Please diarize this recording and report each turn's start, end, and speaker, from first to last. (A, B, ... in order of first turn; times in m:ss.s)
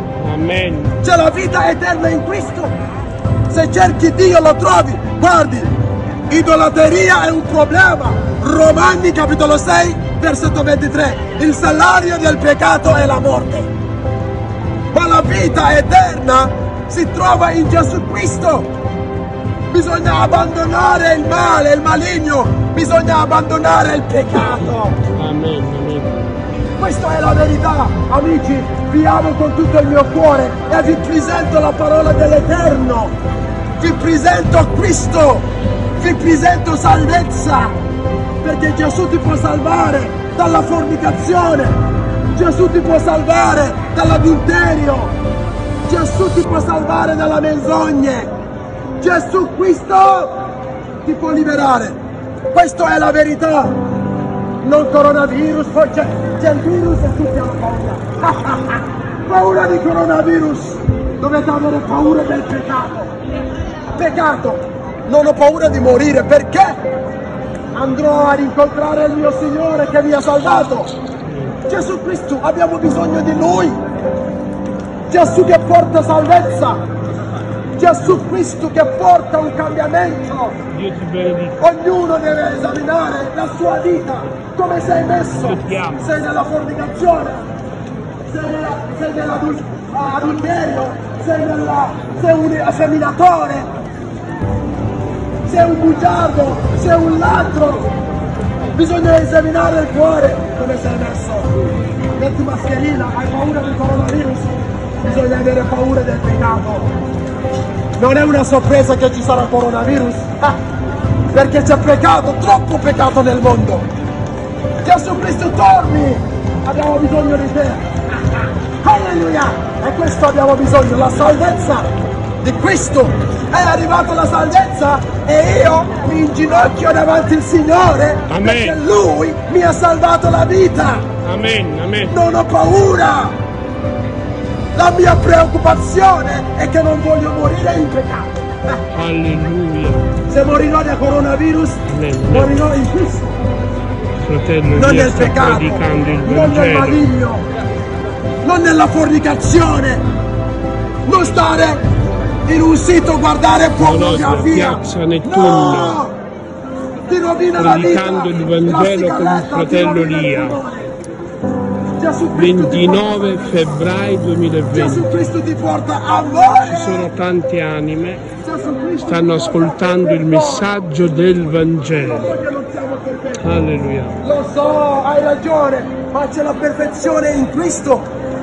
0:00.2-0:01.0 A
0:01.0-0:02.8 B
0:03.5-0:05.7 B
0:06.3-0:13.7 B
0:14.9-0:18.7 B
0:19.7-0:25.0 B
0:25.1-0:26.1 A
0:26.8-0:33.1 B
0:33.8-0:35.4 B
0:36.0-0:37.8 B
0:38.4-0:41.7 B
0:42.3-0:45.1 B
0:45.9-0:48.3 B
0:49.0-0:50.4 B
0:51.0-0:52.0 B
0:52.5-0:53.7 B
0:54.6-1:03.1 B
1:04.0-1:06.8 B
1:07.7-1:10.9 B
1:11.2-1:11.6 A
1:11.7-1:13.8 B
1:15.1-1:16.8 B
1:17.8-1:20.6 B
1:20.7-1:21.6 A
1:21.6-1:27.4 B
1:25.4-1:26.1 A
1:28.3-1:33.7 B
1:35.4-1:37.9 B
1:38.8-1:41.5 B
1:42.2-1:44.5 B
1:45.0-1:46.9 B
1:48.0-1:50.6 B
1:51.3-1:53.8 B
1:54.8-1:57.8 B
1:58.8-2:01.9 B
2:02.4-2:11.1 B
2:08.3-2:08.8 A
2:11.2-2:12.2 A
2:12.1-2:13.4 B
2:14.8-2:18.8 B
2:18.9-2:20.1 A
2:20.3-2:23.3 B
2:21.9-2:22.6 A
2:24.2-2:27.1 A
2:24.7-2:27.4 B
2:28.4-2:30.0 B
2:31.0-2:31.8 B
2:32.5-2:36.2 B
2:33.8-2:36.0 A
2:37.1-2:40.9 B
2:37.6-2:40.6 A
2:42.0-2:43.6 B
2:42.3-2:45.1 A
2:44.7-2:47.1 B
2:46.7-2:48.2 A
2:48.4-2:50.7 B
2:49.1-2:52.3 A
2:52.0-2:53.4 B
2:53.4-2:54.2 A
2:54.2-2:58.1 B